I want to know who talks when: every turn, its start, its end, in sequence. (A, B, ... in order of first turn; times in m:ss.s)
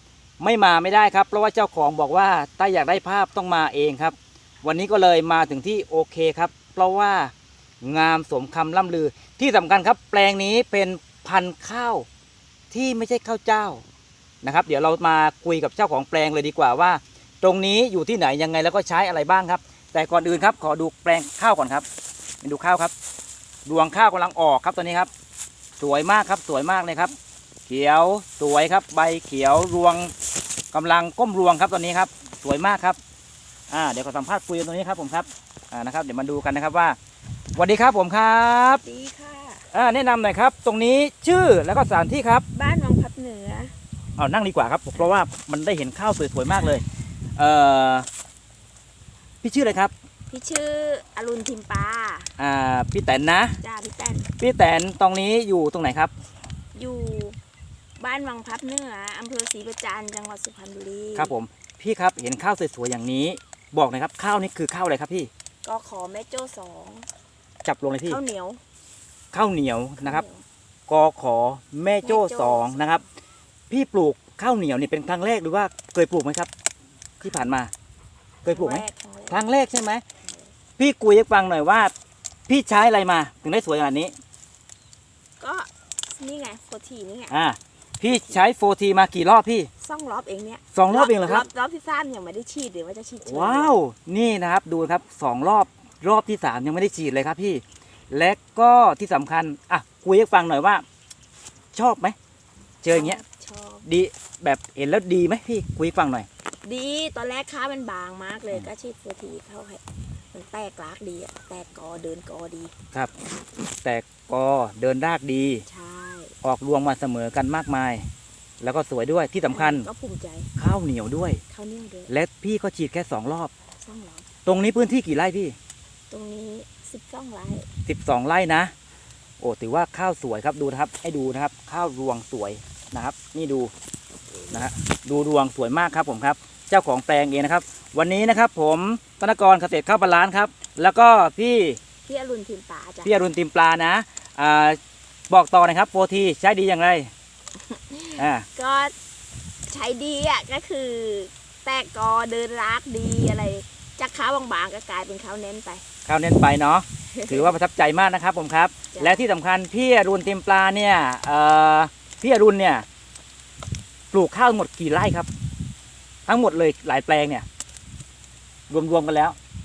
0:00.4-0:12.1 A
0:12.7-0:13.8 A
0:14.4-0:21.8 A
0:22.4-0:22.9 A
0:23.7-0:25.1 A
0:25.8-0:27.1 A
0:27.7-0:30.1 A
0:30.7-0:33.0 A
0:33.7-0:37.0 A
0:37.6-0:38.8 A
0:38.7-0:39.6 B
0:39.7-0:42.4 A
0:42.5-0:43.7 B
0:44.2-0:46.8 A
0:47.4-0:48.1 A
0:49.4-0:49.9 A
0:50.3-0:52.3 B
0:52.4-0:53.6 A
0:53.6-0:54.3 B
0:54.4-0:56.1 A
0:56.8-0:57.4 B
0:58.0-1:01.4 B
1:01.2-1:05.3 A
1:05.6-1:07.1 B
1:07.6-1:08.2 A
1:08.0-1:08.6 B
1:09.3-1:10.2 A
1:10.0-1:10.4 B
1:10.9-1:13.0 A
1:12.0-1:13.1 B
1:13.7-1:16.5 A
1:17.2-1:17.7 A
1:18.4-1:19.4 B
1:18.5-1:20.0 A
1:20.8-1:21.9 A
1:22.5-1:24.1 A
1:25.4-1:27.3 B
1:27.3-1:29.7 A
1:29.8-1:33.8 B
1:30.7-1:31.5 A
1:33.2-1:40.8 A
1:41.7-1:42.2 A
1:42.8-1:43.2 A
1:42.9-1:43.9 B
1:43.8-1:46.3 A
1:46.6-1:52.7 B
1:53.8-1:55.6 A
1:55.7-1:56.4 B
1:56.4-1:58.1 A
1:58.6-1:59.9 A
1:59.5-2:00.5 B
2:00.6-2:01.4 A
2:01.5-2:02.1 B
2:02.1-2:03.5 A
2:03.8-2:04.3 B
2:04.5-2:05.6 A
2:06.1-2:07.7 B
2:07.9-2:08.7 A
2:09.4-2:13.7 A
2:14.5-2:21.8 A
2:22.1-2:23.2 B
2:23.0-2:24.8 A
2:25.3-2:27.1 A
2:27.7-2:29.0 B
2:28.2-2:28.5 A
2:29.7-2:35.8 B
2:36.1-2:42.8 A
2:37.1-2:37.6 B
2:38.9-2:39.2 B
2:44.1-2:45.3 A
2:46.3-2:47.5 A
2:48.7-2:49.4 A